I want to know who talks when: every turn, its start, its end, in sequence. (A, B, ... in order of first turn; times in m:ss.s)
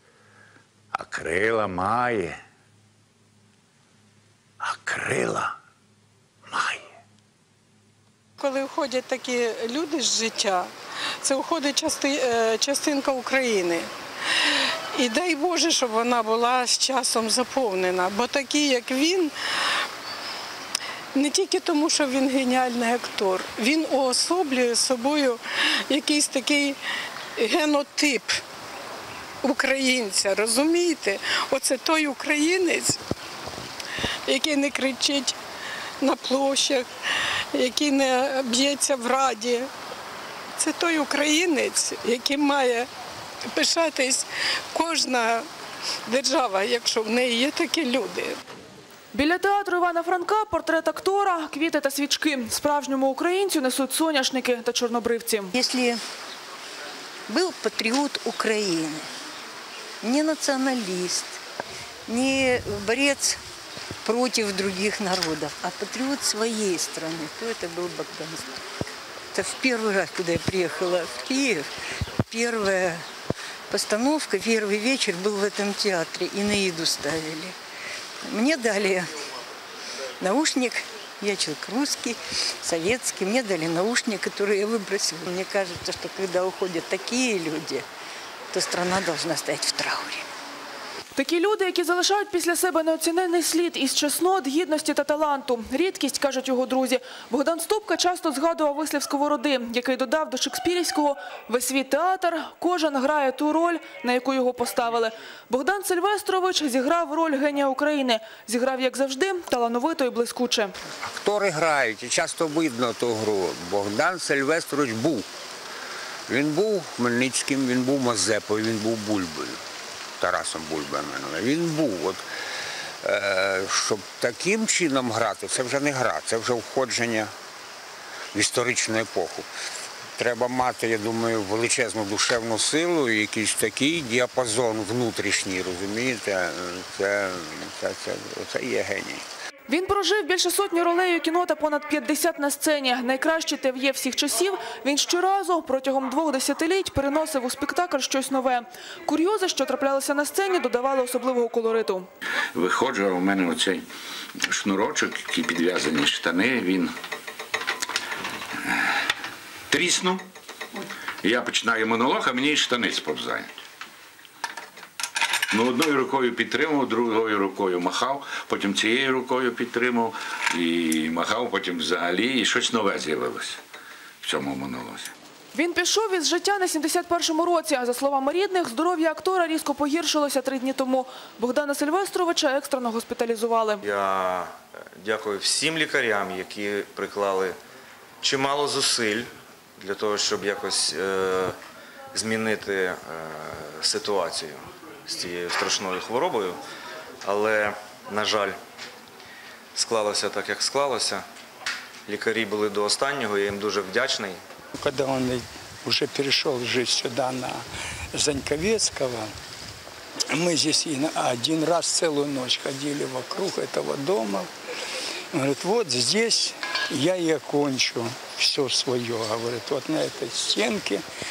0:01.0-0:02.4 A
0:04.6-0:05.5 A
0:06.5-0:06.8 A
0:08.4-0:10.7 B
0:11.2-0:13.9 B
0:15.0-0:19.3 B
0:21.2-0:26.8 B
0:27.4-0:28.3 B
0:29.4-0:33.0 B
0:34.3-0:35.4 B
0:36.0-0:36.9 B
0:37.5-0:39.7 B
0:40.6-0:42.9 B
0:43.5-0:45.4 B
0:46.1-0:48.4 B
0:49.1-0:55.5 C
0:55.6-0:56.0 D
0:57.3-0:59.0 D
1:00.0-1:01.4 D
1:02.1-1:03.4 D
1:04.0-1:08.5 D
1:09.3-1:11.7 D
1:12.3-1:13.0 D
1:13.7-1:17.5 D
1:18.2-1:19.1 D
1:20.2-1:27.8 D
1:28.5-1:30.3 D
1:31.2-1:50.8 C
1:51.0-1:55.2 E
1:56.3-1:59.6 E
2:00.2-2:02.2 E
2:03.0-2:07.3 E
2:08.3-2:09.5 E
2:10.2-2:19.2 E
2:19.7-2:32.1 C
2:32.6-2:33.8 A
2:34.5-2:36.9 A
2:39.7-2:40.2 A
2:41.2-2:43.6 A
2:45.5-2:53.6 A
2:54.2-2:55.1 A
2:55.5-3:03.8 C
3:03.8-3:07.6 F
3:08.2-3:11.6 F
3:12.1-3:16.6 F
3:17.2-3:18.6 F
3:19.8-3:21.2 F
3:22.1-3:24.4 F
3:24.8-3:27.6 G
3:28.1-3:29.3 G
3:30.3-3:34.5 G
3:35.3-3:41.0 G